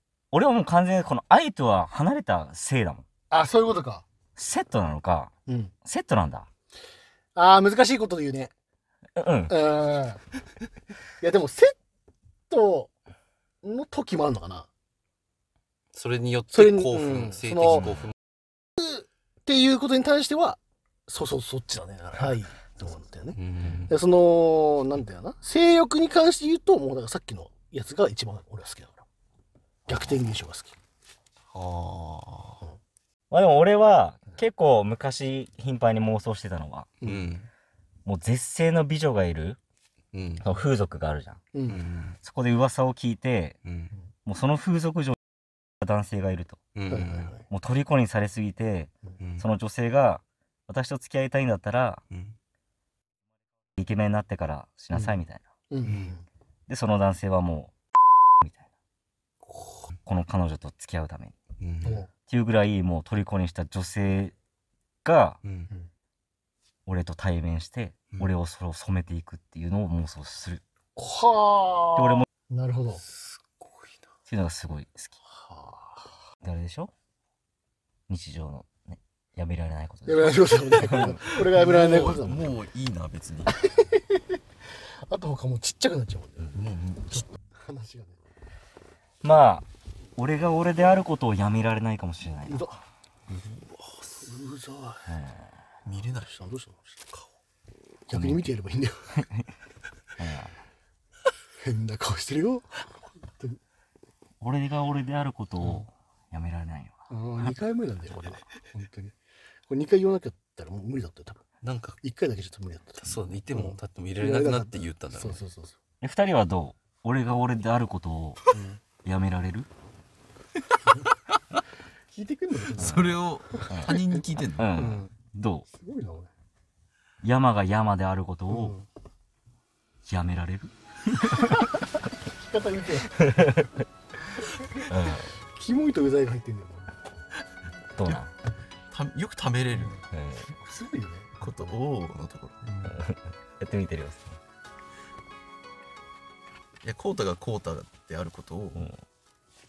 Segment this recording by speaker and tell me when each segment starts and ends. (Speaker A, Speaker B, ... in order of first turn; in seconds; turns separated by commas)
Speaker A: 0.3-3.0, Speaker B: 3.3-4.0, Speaker A: 4.4-5.3, Speaker B: 5.5-5.7, Speaker A: 5.8-6.5, Speaker B: 7.3-8.5, Speaker A: 9.2-9.6, Speaker B: 9.5-10.2, Speaker B: 11.2-11.8, Speaker B: 12.5-12.9, Speaker B: 13.6-14.7, Speaker C: 15.9-18.1, Speaker B: 16.5-17.9, Speaker B: 18.8-29.1, Speaker C: 23.3-23.9, Speaker B: 29.9-30.8, Speaker C: 29.9-30.2, Speaker C: 31.5-32.6, Speaker A: 33.3-36.9, Speaker C: 37.0-37.5, Speaker A: 38.0-39.6, Speaker C: 40.1-40.5, Speaker A: 40.4-41.4, Speaker B: 41.5-41.8, Speaker C: 41.7-42.2, Speaker A: 42.2-43.6, Speaker C: 43.6-43.9, Speaker A: 44.3-45.2, Speaker A: 45.8-46.6, Speaker C: 46.8-47.4, Speaker B: 46.9-47.4, Speaker A: 47.5-52.0, Speaker C: 49.2-49.5, Speaker C: 52.1-52.4, Speaker A: 53.8-55.5, Speaker B: 55.7-56.2, Speaker C: 55.8-56.1, Speaker A: 56.7-57.7, Speaker A: 58.4-58.7, Speaker C: 59.5-60.0, Speaker A: 60.1-61.3, Speaker C: 61.6-62.0, Speaker A: 62.3-64.3, Speaker A: 65.0-65.4, Speaker C: 65.4-65.7, Speaker A: 66.9-70.6, Speaker B: 71.0-73.0, Speaker A: 72.0-72.3, Speaker C: 73.2-74.0, Speaker A: 74.3-75.2, Speaker B: 75.3-76.1, Speaker A: 76.4-76.9, Speaker A: 78.1-81.2, Speaker B: 80.1-82.6, Speaker C: 80.9-83.6, Speaker B: 83.6-84.2, Speaker B: 85.1-88.2, Speaker A: 89.2-92.6, Speaker B: 92.5-92.8, Speaker C: 93.3-94.2, Speaker B: 94.2-95.0, Speaker A: 95.1-95.5, Speaker C: 95.9-96.4, Speaker B: 96.3-96.8, Speaker B: 98.1-99.1, Speaker A: 98.1-98.5, Speaker A: 100.2-100.5, Speaker B: 101.6-102.8, Speaker A: 104.4-107.5, Speaker B: 105.6-105.9, Speaker B: 107.1-109.2, Speaker B: 109.7-111.4, Speaker C: 111.6-112.0, Speaker B: 112.0-115.8, Speaker C: 113.0-115.4, Speaker A: 116.0-118.4, Speaker B: 118.5-118.8, Speaker A: 119.0-119.7, Speaker B: 122.1-124.0, Speaker C: 122.8-124.7, Speaker A: 122.8-123.1, Speaker A: 123.7-124.0, Speaker A: 124.6-125.7, Speaker B: 124.8-125.1, Speaker B: 125.8-126.3, Speaker A: 127.2-128.8, Speaker B: 128.5-128.9, Speaker A: 130.1-131.7, Speaker B: 132.3-133.3, Speaker A: 133.2-133.7, Speaker A: 134.9-135.3, Speaker B: 135.6-136.9, Speaker A: 138.0-138.3, Speaker C: 138.9-140.0, Speaker A: 140.1-140.5, Speaker B: 140.5-141.5, Speaker C: 141.4-142.7, Speaker B: 142.7-143.0, Speaker A: 142.8-144.4, Speaker C: 146.8-148.9, Speaker A: 148.8-149.0